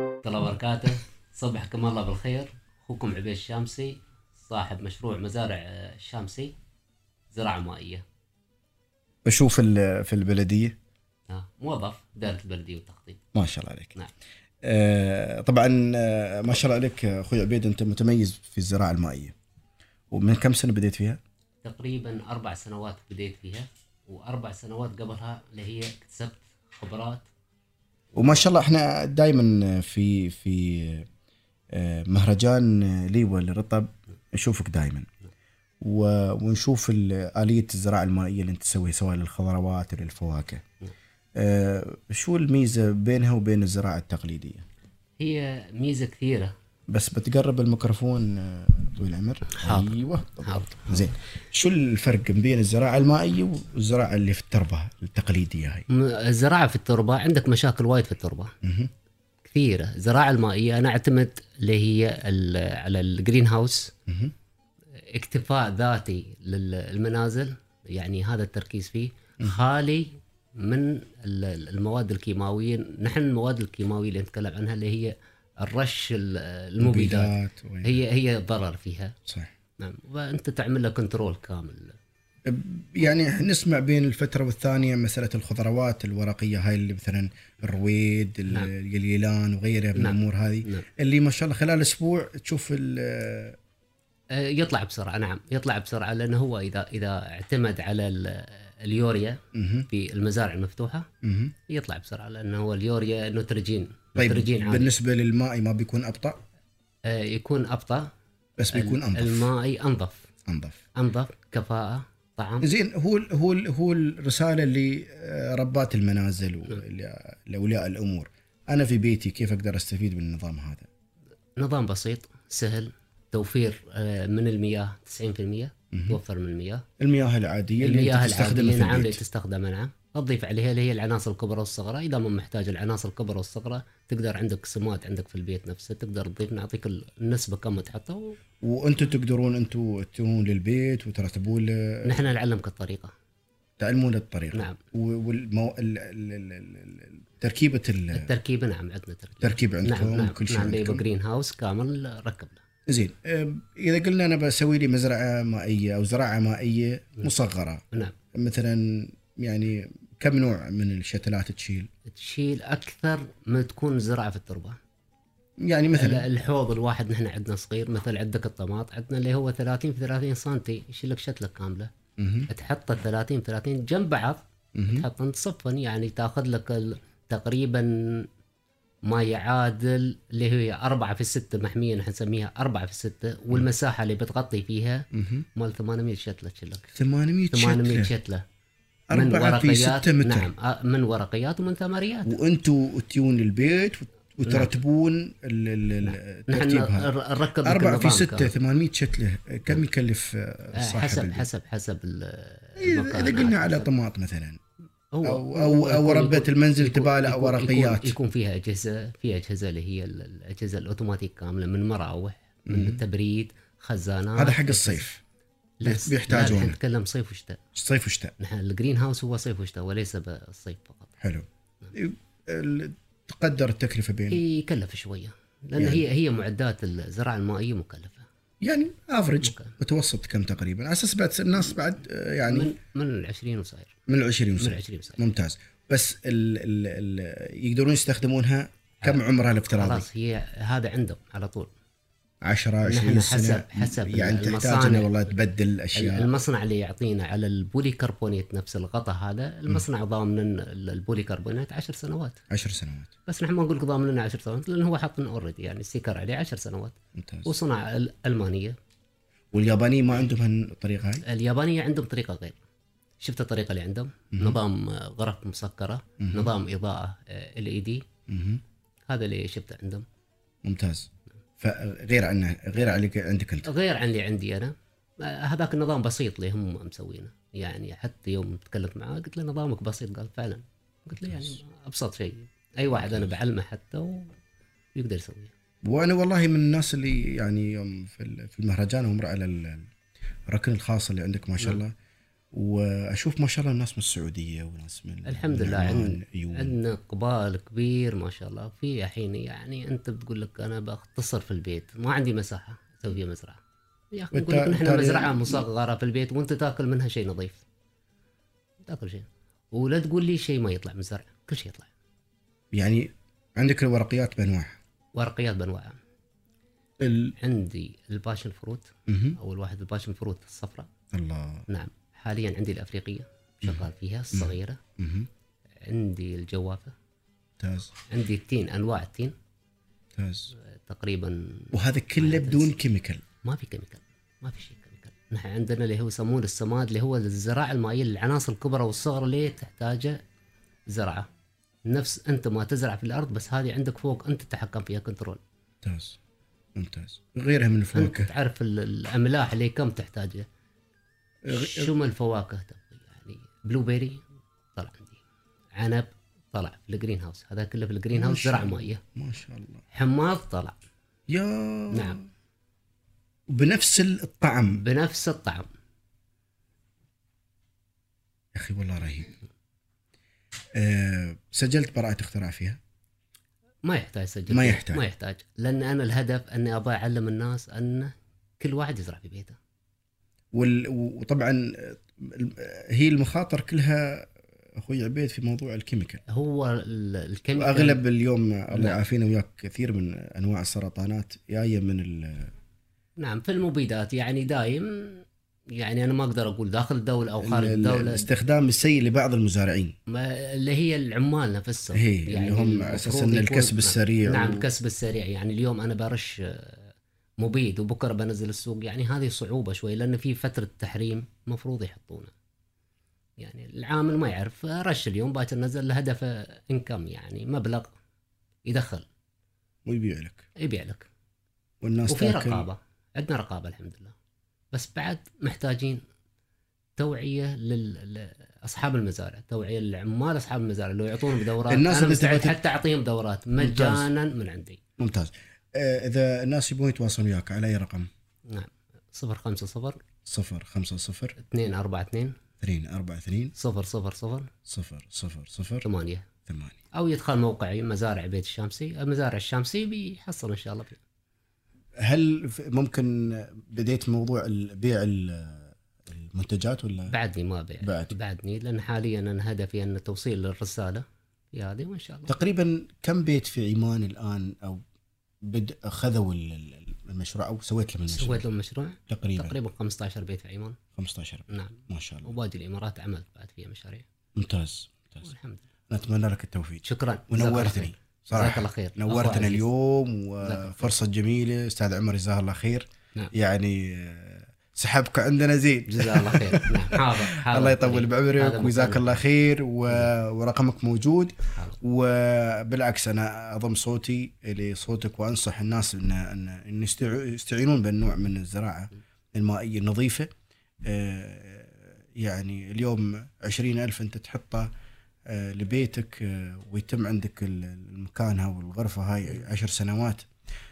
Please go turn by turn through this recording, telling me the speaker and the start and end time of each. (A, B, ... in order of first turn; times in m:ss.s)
0:00.2-0:06.6 A
0:07.3-0:08.0 A
0:09.3-0:10.8 B
0:11.3-0:13.2 A
0:13.4-0:14.0 B
0:14.6-0:19.4 B
0:20.1-0:21.2 B
0:21.6-0:27.3 A
0:28.2-0:31.1 B
0:31.7-0:35.1 B
0:35.8-0:40.6 B
0:41.4-0:44.7 B
0:45.2-0:46.5 A
0:46.9-0:55.8 B
0:49.5-0:51.1 A
0:55.9-0:58.5 A
0:58.6-0:58.9 B
0:59.5-1:03.9 A
1:04.1-1:04.3 B
1:05.0-1:19.2 A
1:16.8-1:18.0 B
1:19.8-1:22.0 A
1:22.5-1:33.6 B
1:30.0-1:30.9 A
1:34.3-1:41.1 A
1:39.5-1:39.9 B
1:41.2-1:41.5 B
1:41.7-1:44.9 A
1:44.2-1:46.4 B
1:47.0-1:48.1 A
1:48.6-1:49.5 B
1:48.7-1:50.3 A
1:50.5-1:50.8 B
1:51.0-1:52.7 A
1:52.6-2:00.9 B
2:01.6-2:06.8 A
2:05.9-2:06.2 B
2:07.0-2:09.2 B
2:07.8-2:18.4 A
2:18.6-2:22.3 B
2:22.0-2:23.1 A
2:23.8-2:28.3 B
2:24.5-2:24.8 A
2:28.1-2:32.6 A
2:29.4-2:31.0 B
2:32.9-2:41.9 B
2:42.1-2:44.8 A
2:45.6-2:46.3 B
2:45.9-2:51.9 A
2:52.2-2:52.5 B
2:52.5-2:58.3 A
2:54.8-2:55.1 B
2:59.1-3:06.9 A
3:05.1-3:05.5 B
3:06.9-3:08.1 B
3:07.5-3:08.4 A
3:09.1-3:10.5 B
3:09.1-3:12.4 A
3:12.2-3:21.5 B
3:14.4-3:14.7 A
3:16.0-3:18.5 A
3:20.8-3:23.9 A
3:22.8-3:24.6 B
3:25.1-3:35.1 A
3:25.2-3:28.2 B
3:32.7-3:33.0 B
3:34.4-3:35.2 B
3:35.8-3:37.6 A
3:35.8-3:36.8 B
3:37.8-3:38.3 B
3:38.4-3:41.2 A
3:41.2-3:44.4 B
3:44.3-3:48.3 A
3:45.8-3:46.0 B
3:48.6-3:52.7 B
3:49.4-3:49.7 A
3:52.4-3:54.0 A
3:54.1-4:00.1 B
3:54.6-3:55.2 A
3:59.0-4:01.7 A
4:02.4-4:06.3 B
4:02.8-4:05.1 A
4:05.9-4:12.4 A
4:12.5-4:13.1 B
4:13.3-4:18.8 A
4:17.2-4:17.5 B
4:19.5-4:21.2 B
4:21.2-4:22.6 A
4:23.2-4:28.1 A
4:24.3-4:24.6 B
4:26.2-4:26.5 B
4:28.3-4:28.6 B
4:29.1-4:30.1 A
4:30.6-4:31.1 B
4:31.6-4:33.7 B
4:33.6-4:44.3 A
4:41.2-4:41.6 B
4:42.9-4:43.4 B
4:45.0-4:45.5 A
4:45.8-4:49.9 B
4:50.5-4:51.9 B
4:52.5-4:56.8 B
4:55.2-5:03.6 A
5:04.1-5:07.6 A
5:04.3-5:05.7 B
5:08.8-5:11.9 A
5:12.7-5:14.8 B
5:15.2-5:16.0 A
5:17.0-5:17.4 B
5:17.4-5:20.9 A
5:19.1-5:19.4 B
5:21.1-5:21.7 B
5:21.7-5:24.8 A
5:23.6-5:25.3 B
5:25.8-5:26.9 A
5:27.6-5:27.9 B
5:28.1-5:29.3 A
5:30.2-5:30.5 B
5:30.7-5:32.7 A
5:31.7-5:33.2 B
5:33.4-5:40.2 A
5:40.9-5:41.3 A
5:41.9-5:45.4 A
5:45.8-5:46.2 B
5:46.8-5:48.3 B
5:47.9-5:50.5 A
5:51.4-5:51.9 B
5:51.5-5:55.2 A
5:55.8-5:59.0 A
5:58.1-5:59.8 B
5:59.9-6:00.8 A
6:01.3-6:02.2 B
6:01.9-6:02.2 A
6:03.5-6:04.8 B
6:04.7-6:05.7 A
6:08.6-6:09.4 B
6:10.8-6:12.8 B
6:13.8-6:19.6 A
6:14.5-6:15.0 B
6:20.5-6:26.2 B
6:26.3-6:28.0 A
6:27.6-6:32.5 B
6:28.7-6:29.0 A
6:33.2-6:38.3 A
6:37.4-6:40.0 B
6:40.1-6:52.3 A
6:41.9-6:44.7 B
6:53.4-6:57.9 A
6:58.7-6:59.1 A
6:59.9-7:00.5 B
7:00.6-7:01.1 A
7:01.8-7:02.7 B
7:02.1-7:04.1 A
7:04.7-7:06.0 A
7:07.0-7:14.8 A
7:11.7-7:12.6 B
7:13.6-7:14.1 B
7:15.0-7:18.1 B
7:18.5-7:20.0 A
7:20.2-7:21.4 B
7:21.4-7:22.4 A
7:22.6-7:23.5 B
7:23.6-7:24.5 A
7:24.7-7:25.9 B
7:25.8-7:26.3 A
7:26.5-7:26.8 B
7:26.9-7:31.0 A
7:32.0-7:37.2 B
7:37.1-7:42.4 A
7:37.8-7:38.2 B
7:42.3-7:44.8 B
7:45.4-7:48.5 B
7:48.1-7:50.8 A
7:49.1-7:49.6 B
7:51.0-7:52.3 B
7:51.5-7:54.1 A
7:54.4-7:55.3 B
7:55.2-7:55.7 A
7:55.9-8:20.3 B
7:56.8-7:59.7 A
8:00.4-8:00.9 A
8:05.9-8:09.2 A
8:09.9-8:10.1 A
8:11.5-8:11.8 A
8:20.8-8:24.7 B
8:25.3-8:30.3 B